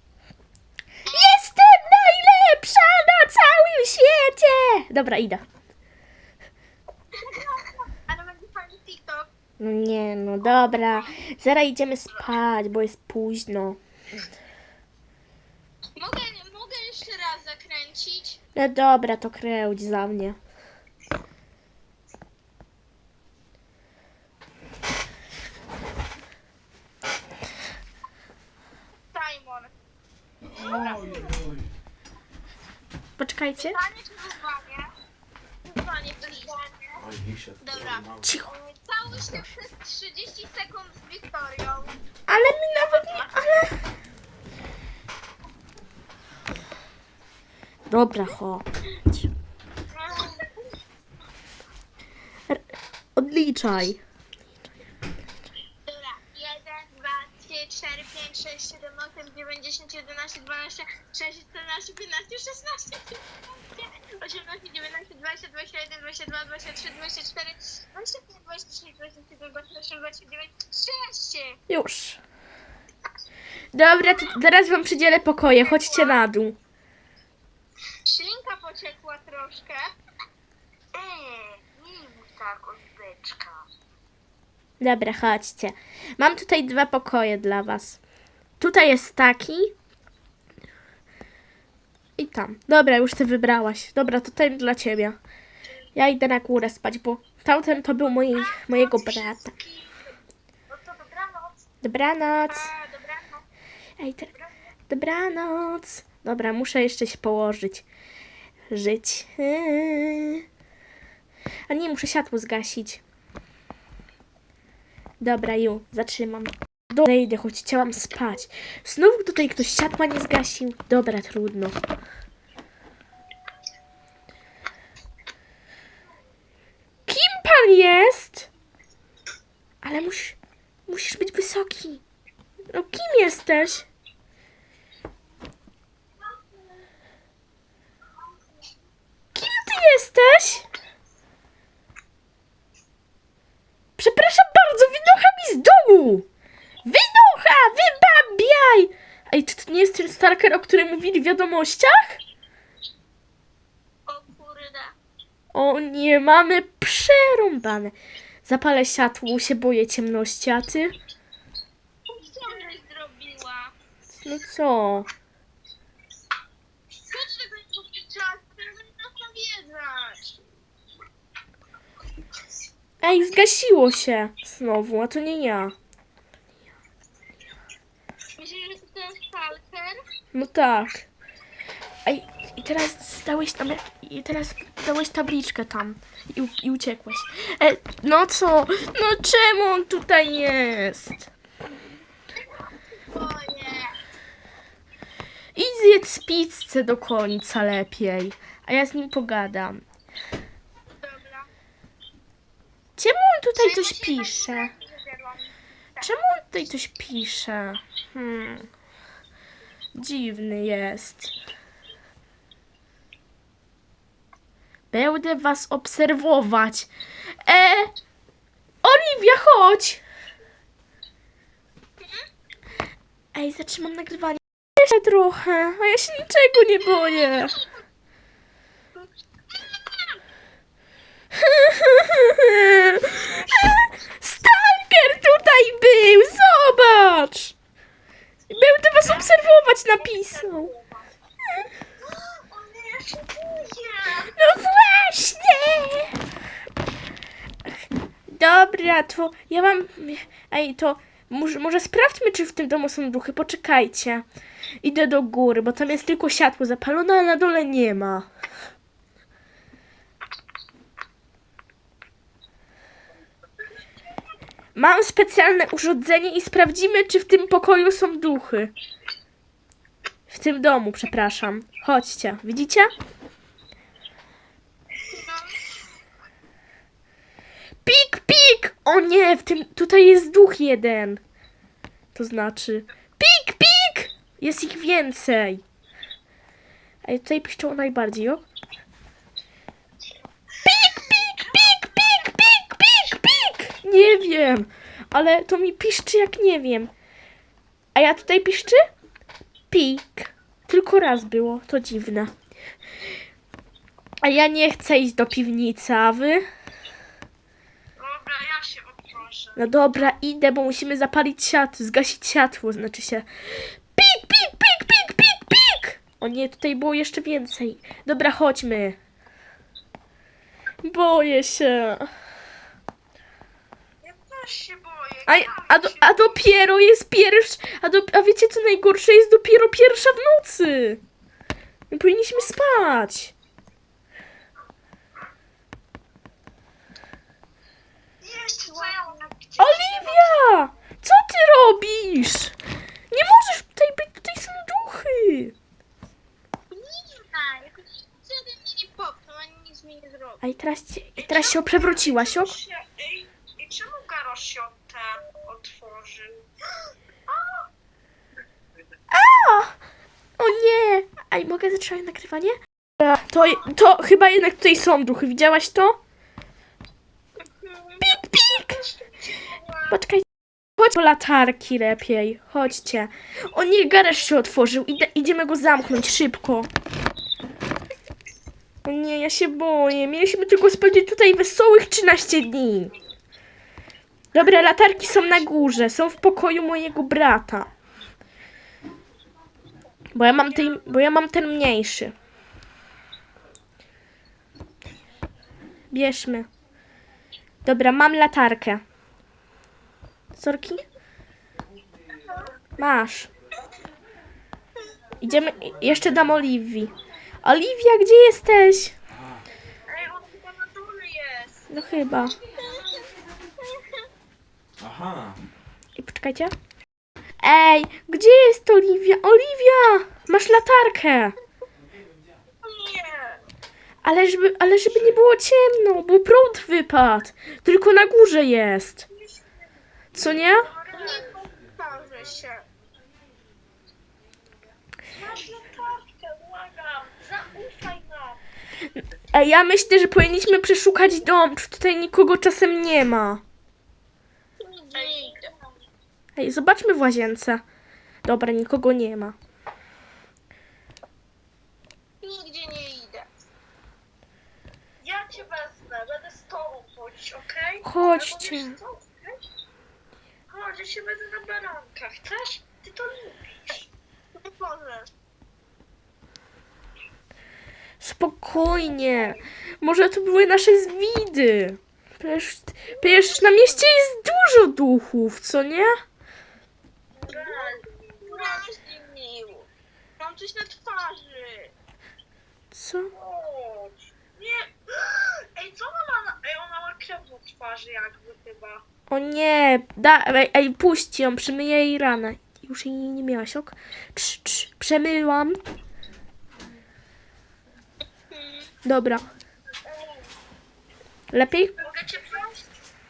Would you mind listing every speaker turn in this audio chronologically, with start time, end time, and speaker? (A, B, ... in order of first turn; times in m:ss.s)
0:01.1-0:01.4 A
0:01.1-0:05.4 B
0:07.1-0:09.3 A
0:09.6-0:13.8 B
0:10.4-0:11.1 A
0:16.0-0:18.4 A
0:18.5-0:20.4 B
0:29.1-0:29.7 A
0:30.4-0:31.7 C
0:30.6-0:31.3 A
0:33.2-0:33.8 B
0:33.6-0:34.9 A
0:35.6-0:37.0 A
0:36.3-0:36.6 D
0:37.0-0:38.2 C
0:37.6-0:42.0 A
0:38.2-0:38.5 B
0:42.3-0:43.8 B
0:43.0-0:43.3 A
0:47.9-0:49.2 B
0:49.9-0:50.5 A
0:53.2-0:54.0 B
0:55.8-1:11.6 A
1:11.7-1:12.2 B
1:13.7-1:16.6 B
1:15.6-1:16.2 A
1:18.0-1:20.0 A
1:20.9-1:23.7 D
1:24.8-1:28.0 B
1:28.6-1:29.7 B
1:32.2-1:35.2 B
1:35.9-1:39.5 B
1:38.4-1:40.1 D
1:40.7-1:41.6 D
1:41.8-1:42.7 B
1:42.4-1:43.4 A
1:44.0-1:44.3 B
1:44.9-1:47.8 B
1:48.7-1:50.4 B
1:51.7-1:53.0 B
1:55.2-2:01.8 B
2:07.1-2:08.5 B
2:09.8-2:12.0 B
2:12.7-2:13.9 B
2:19.3-2:20.7 B
2:24.0-2:26.3 B
2:26.8-2:32.2 B
2:34.1-2:34.9 A
2:35.5-2:41.0 B
2:42.1-2:43.7 A
2:44.1-2:45.1 B
2:47.0-2:50.4 A
2:53.0-2:55.8 B
2:58.3-3:00.0 A
3:00.3-3:01.1 B
3:02.0-3:11.3 B
3:12.5-3:14.0 A
3:15.5-3:19.8 B
3:21.0-3:21.5 A
3:23.0-3:24.7 B
3:23.6-3:26.4 A
3:26.0-3:28.7 B
3:30.0-3:31.3 B
3:34.9-3:36.9 B
3:37.4-3:37.9 B
3:38.8-3:40.0 B
3:43.3-3:47.6 B
3:46.8-3:47.8 A
3:49.6-3:50.1 A
3:51.3-3:57.6 B
3:53.0-3:53.9 D
3:58.5-4:00.7 B
3:59.0-4:01.0 D
4:02.0-4:04.3 D
4:04.2-4:06.2 B
4:08.3-4:14.2 B
4:14.8-4:18.3 B
4:24.7-4:28.7 B
4:30.3-4:32.9 B
4:35.1-4:35.6 A
4:37.8-4:41.2 B
4:42.1-4:45.6 B
4:47.0-4:48.5 B
4:50.6-4:56.9 B
4:50.7-4:53.3 D
4:57.9-4:58.9 B
4:59.7-5:02.3 B
5:04.2-5:06.5 B
5:08.0-5:09.7 D
5:09.6-5:19.0 B
5:20.8-5:22.1 B
5:24.0-5:26.5 D
5:25.2-5:31.0 B
5:31.9-5:33.3 B
5:38.2-5:40.4 D
5:38.6-5:39.2 A
5:39.6-5:42.6 B
5:43.1-5:45.5 B
5:46.7-5:50.4 A
5:50.4-5:52.6 B
5:51.2-5:56.5 D
5:57.3-5:57.7 D
5:59.1-5:59.8 B
6:00.4-6:06.0 B
6:08.0-6:10.0 D
6:08.0-6:08.8 B
6:09.9-6:16.7 B
6:18.8-6:22.9 B
6:24.3-6:27.7 B
6:30.1-6:32.1 B
6:35.9-6:36.5 B
6:37.6-6:38.8 B
6:40.4-6:40.8 B
6:42.8-6:43.3 B
6:45.2-6:46.9 B
6:47.4-6:49.0 B
6:49.1-6:49.4 C
6:49.9-6:51.6 D
6:51.7-6:52.4 B
6:52.4-6:53.1 A
6:53.7-6:54.0 A
6:54.8-6:55.5 C
6:56.0-6:56.5 B
6:57.4-7:01.3 B
7:02.7-7:03.4 D
7:04.0-7:09.0 B
7:09.1-7:09.7 D
7:10.1-7:10.7 B
7:10.4-7:11.5 D
7:10.9-7:12.7 A
7:15.1-7:18.4 D
7:18.9-7:23.4 B
7:24.6-7:25.5 A
7:24.9-7:25.8 D
7:26.4-7:27.6 B
7:28.2-7:29.4 B
7:32.2-7:33.3 A
7:35.0-7:39.4 D
7:37.8-7:38.8 B
7:40.5-7:43.9 D
7:44.4-7:45.1 A
7:48.0-7:55.9 B
7:57.1-7:58.7 D
7:57.3-8:01.7 A
8:02.7-8:03.1 B
8:03.1-8:08.8 D
8:09.1-8:15.6 B
8:18.3-8:18.7 A
8:18.8-8:19.3 B
8:19.8-8:20.3 D
8:21.3-8:21.7 B
8:21.8-8:22.6 D